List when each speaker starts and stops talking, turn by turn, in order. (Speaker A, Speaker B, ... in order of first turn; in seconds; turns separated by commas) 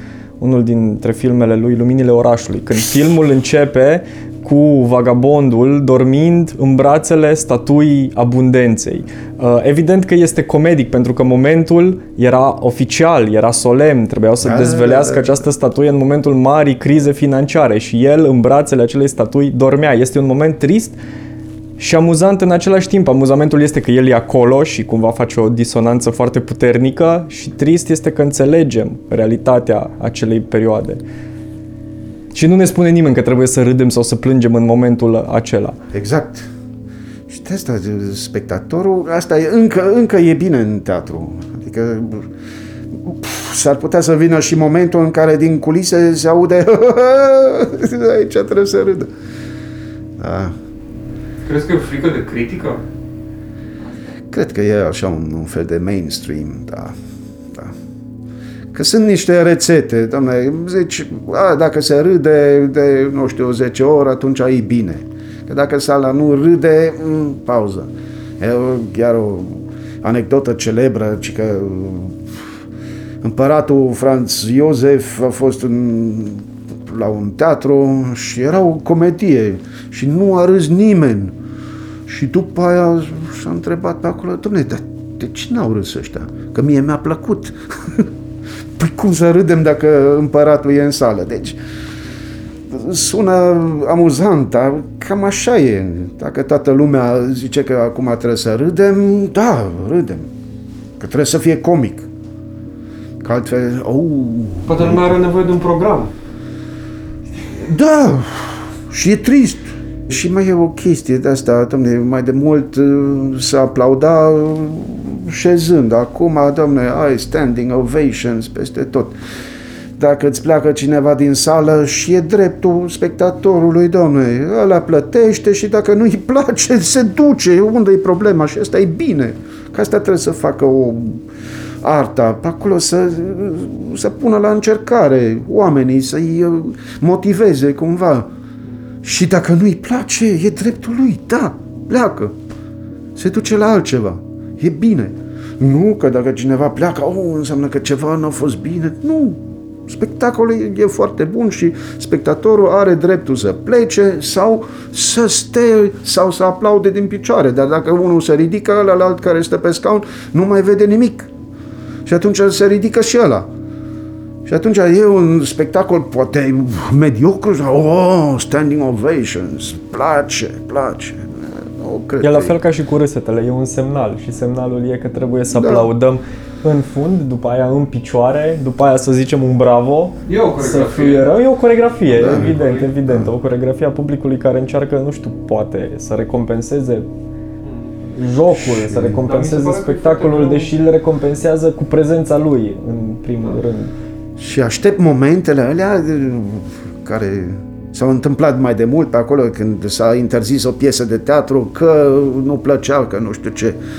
Speaker A: 0.4-21.0, Speaker B: 14.4-15.5, Speaker A: 21.8-31.0, Speaker A: 32.3-35.8, Speaker B: 35.9-36.5, Speaker B: 37.3-42.3, Speaker B: 42.9-49.1, Speaker B: 50.2-50.6, Speaker C: 51.5-52.8, Speaker B: 54.3-57.0, Speaker B: 58.7-72.5, Speaker B: 73.2-81.4, Speaker B: 82.1-88.1, Speaker B: 88.8-91.6, Speaker B: 92.7-100.3, Speaker B: 101.0-102.1, Speaker B: 103.2-105.2, Speaker C: 104.7-106.1, Speaker B: 107.5-119.2, Speaker B: 120.0-131.2, Speaker B: 131.8-138.3, Speaker B: 139.0-142.3, Speaker B: 143.2-161.3, Speaker B: 162.1-163.5, Speaker B: 164.5-172.6, Speaker A: 172.2-187.1, Speaker B: 175.5-175.9, Speaker C: 180.3-181.3, Speaker B: 182.1-183.3, Speaker C: 182.4-182.9, Speaker C: 187.6-187.9, Speaker A: 188.1-193.9, Speaker B: 188.6-189.2, Speaker C: 189.2-190.7, Speaker B: 194.4-203.8